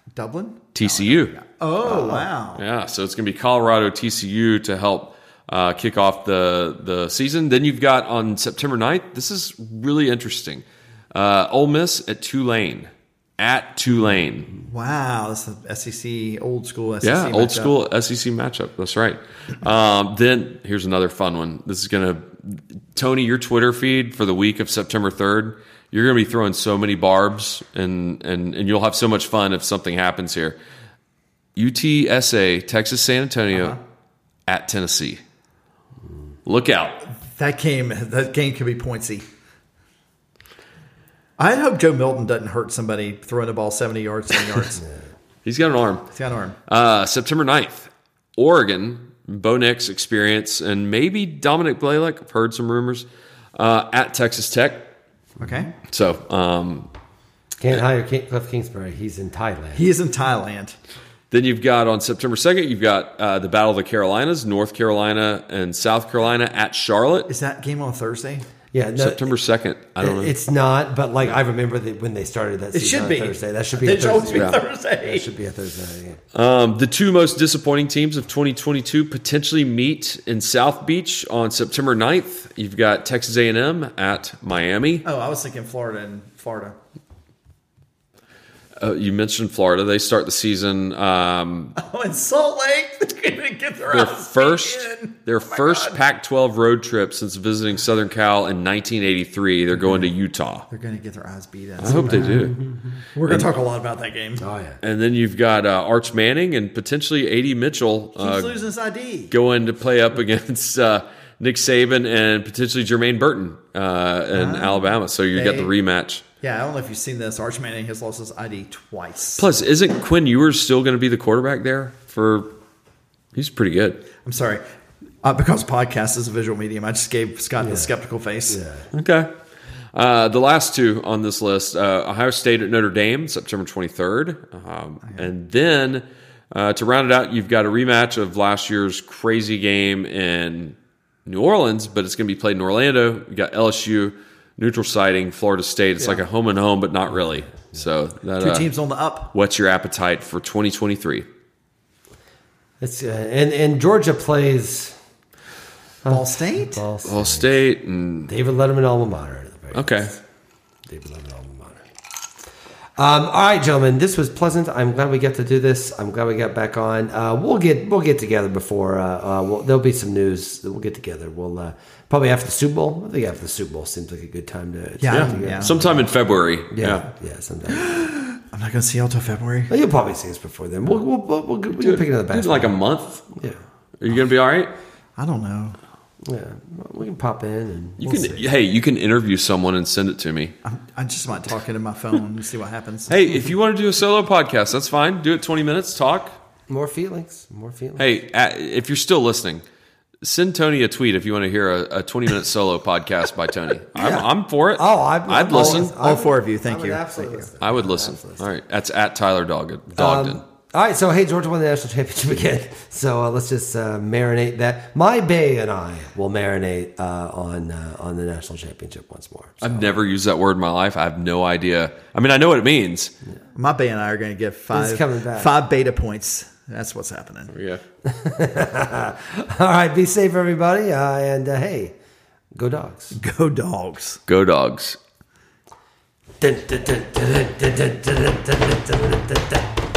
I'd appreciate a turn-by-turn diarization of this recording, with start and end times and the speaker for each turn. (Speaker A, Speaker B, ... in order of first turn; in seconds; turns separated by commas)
Speaker A: 0.1-2.6, Speaker B: 0.8-1.3, Speaker B: 2.0-14.5, Speaker A: 14.7-17.7, Speaker B: 17.0-30.6, Speaker B: 31.6-33.8, Speaker A: 33.5-33.8, Speaker B: 34.5-35.2, Speaker B: 36.5-37.0, Speaker A: 37.2-39.2, Speaker A: 41.4-44.8, Speaker B: 45.5-46.1, Speaker A: 46.1-46.6, Speaker B: 46.7-54.9, Speaker A: 55.4-55.7, Speaker B: 55.9-56.9, Speaker C: 57.6-59.8, Speaker A: 59.8-60.8, Speaker B: 61.3-67.3, Speaker A: 67.3-68.5, Speaker C: 68.7-69.3, Speaker B: 69.0-70.3, Speaker C: 70.0-76.2, Speaker A: 72.7-75.3, Speaker B: 76.3-85.0, Speaker A: 85.0-86.8, Speaker B: 88.8-91.8, Speaker A: 91.8-96.0, Speaker B: 93.9-100.7, Speaker A: 100.7-102.6, Speaker B: 101.8-102.6, Speaker C: 101.9-102.7, Speaker A: 103.1-104.5, Speaker C: 104.4-104.8, Speaker B: 104.8-108.6, Speaker A: 108.2-109.3, Speaker B: 109.3-116.2, Speaker A: 114.3-115.7, Speaker A: 116.4-119.5, Speaker B: 119.4-122.5, Speaker B: 123.3-124.0, Speaker A: 124.2-124.6, Speaker A: 125.2-128.6, Speaker C: 127.6-127.9, Speaker C: 128.5-128.9, Speaker B: 128.9-129.3, Speaker B: 129.9-148.7, Speaker A: 148.4-149.3, Speaker B: 149.3-151.3, Speaker C: 152.8-155.0, Speaker C: 156.0-157.5, Speaker A: 156.1-156.8, Speaker B: 157.1-158.3, Speaker C: 158.3-160.2, Speaker B: 159.7-160.2, Speaker C: 160.9-161.9, Speaker C: 163.0-175.9, Speaker A: 175.0-176.0, Speaker B: 175.1-177.1, Speaker C: 176.7-178.1, Speaker A: 177.7-179.7, Speaker C: 179.7-182.8, Speaker B: 181.8-183.3, Speaker C: 183.3-183.6, Speaker B: 184.0-184.7, Speaker A: 185.2-185.8, Speaker C: 186.2-188.5, Speaker B: 188.0-190.6, Speaker A: 190.6-193.2, Speaker B: 193.1-196.4, Speaker C: 196.7-198.1, Speaker B: 198.0-199.7, Speaker B: 200.2-205.9, Speaker C: 203.9-208.5, Speaker A: 205.5-207.5, Speaker B: 207.6-210.4, Speaker C: 209.9-219.8, Speaker B: 219.6-223.1, Speaker A: 223.6-227.5, Speaker C: 224.7-225.5, Speaker B: 227.5-227.8, Speaker C: 228.0-231.9, Speaker C: 232.6-233.2, Speaker A: 233.2-234.2, Speaker B: 234.3-235.0, Speaker C: 236.4-239.7